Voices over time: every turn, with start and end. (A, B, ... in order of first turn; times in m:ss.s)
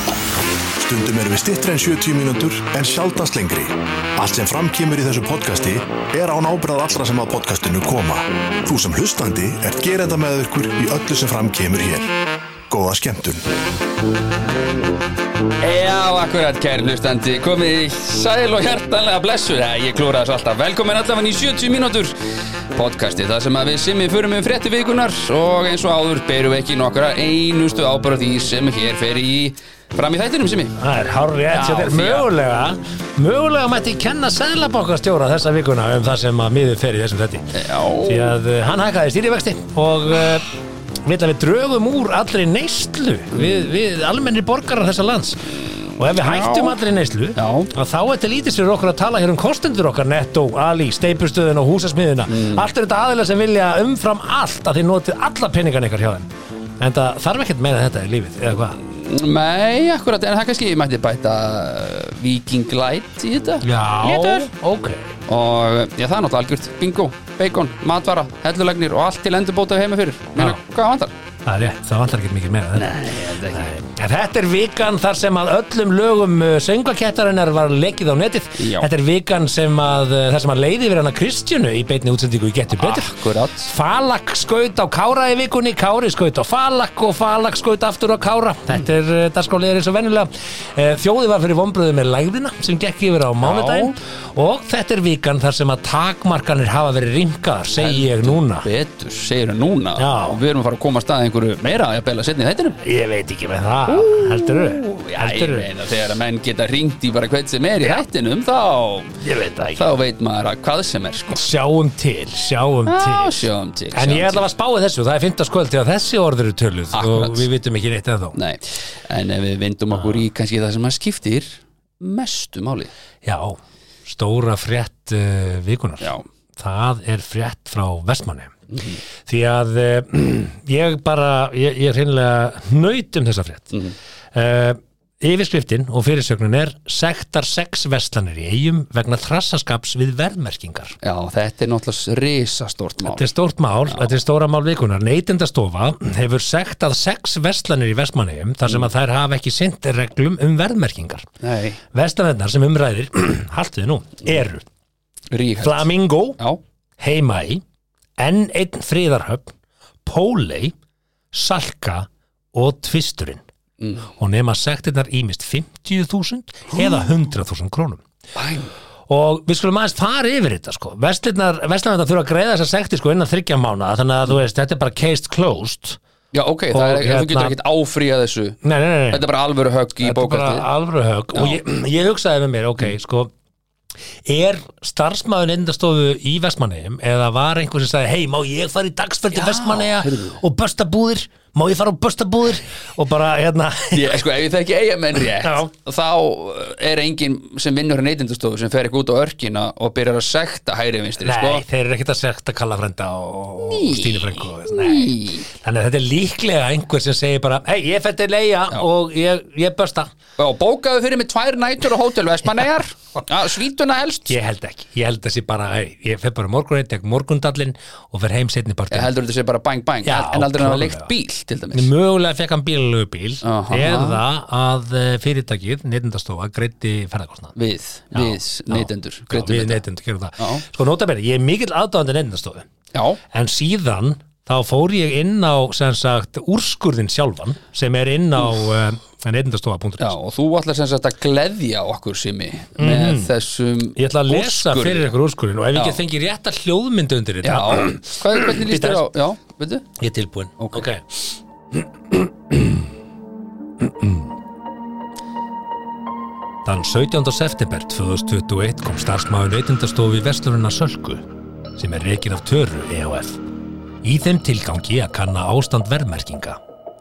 0:00.8-0:12.1 A
0:12.7-0:13.4 A
0:15.6-0:22.2 B
0:22.7-0:30.8 B
0:30.8-0:40.5 C
0:31.5-0:32.3 B
0:37.5-0:38.4 B
0:41.0-0:56.3 C
0:45.8-0:46.8 B
0:47.4-0:47.7 B
0:52.3-0:52.7 B
0:56.8-0:58.8 C
0:58.8-1:04.5 B
1:03.6-1:05.1 C
1:05.3-1:11.1 B
1:11.4-1:38.7 C
1:12.8-1:13.7 B
1:18.6-1:18.9 B
1:22.8-1:23.7 B
1:33.4-1:34.0 B
1:37.8-1:42.8 B
1:40.0-1:40.4 C
1:42.8-1:45.7 C
1:43.9-1:49.2 B
1:49.2-1:50.0 C
1:49.7-1:51.4 B
1:51.3-1:58.4 C
1:52.9-1:54.4 B
1:56.9-1:57.5 B
1:58.3-2:02.9 B
2:03.2-2:08.6 C
2:08.7-2:09.0 B
2:09.2-2:13.8 C
2:14.3-2:21.0 C
2:21.0-2:23.3 B
2:23.0-2:31.3 C
2:31.4-2:31.8 B
2:31.9-2:34.6 C
2:35.3-2:36.6 B
2:35.6-2:36.4 C
2:37.0-2:37.6 C
2:38.2-2:40.8 C
2:41.3-2:43.4 C
2:43.8-2:44.1 B
2:44.2-2:48.0 C
2:46.7-2:47.0 B
2:48.3-2:48.7 B
2:49.1-2:56.0 C
2:56.3-2:58.6 B
2:56.7-2:57.6 C
2:58.6-2:59.3 C
2:59.1-3:00.7 B
3:00.0-3:03.3 C
3:04.2-3:14.2 C
3:09.3-3:10.4 B
3:13.9-3:21.6 B
3:15.2-3:15.7 C
3:21.2-3:30.1 C
3:23.7-3:25.5 B
3:30.4-3:34.3 B
3:34.3-3:39.1 C
3:38.9-3:41.9 B
3:40.0-3:41.1 C
3:41.7-3:47.5 C
3:43.4-3:44.2 B
3:47.6-3:49.8 B
3:48.1-3:52.7 C
3:50.4-3:50.6 B
3:52.9-3:53.2 B
3:53.3-4:00.2 C
4:00.0-4:05.1 B
4:02.8-4:03.3 C
4:04.0-4:09.1 C
4:05.7-4:06.0 B
4:07.4-4:09.9 B
4:10.0-4:11.0 C
4:10.6-4:10.9 B
4:11.7-4:12.9 C
4:13.8-4:14.3 C
4:16.6-4:21.2 C
4:21.8-4:23.4 C
4:24.0-4:26.6 C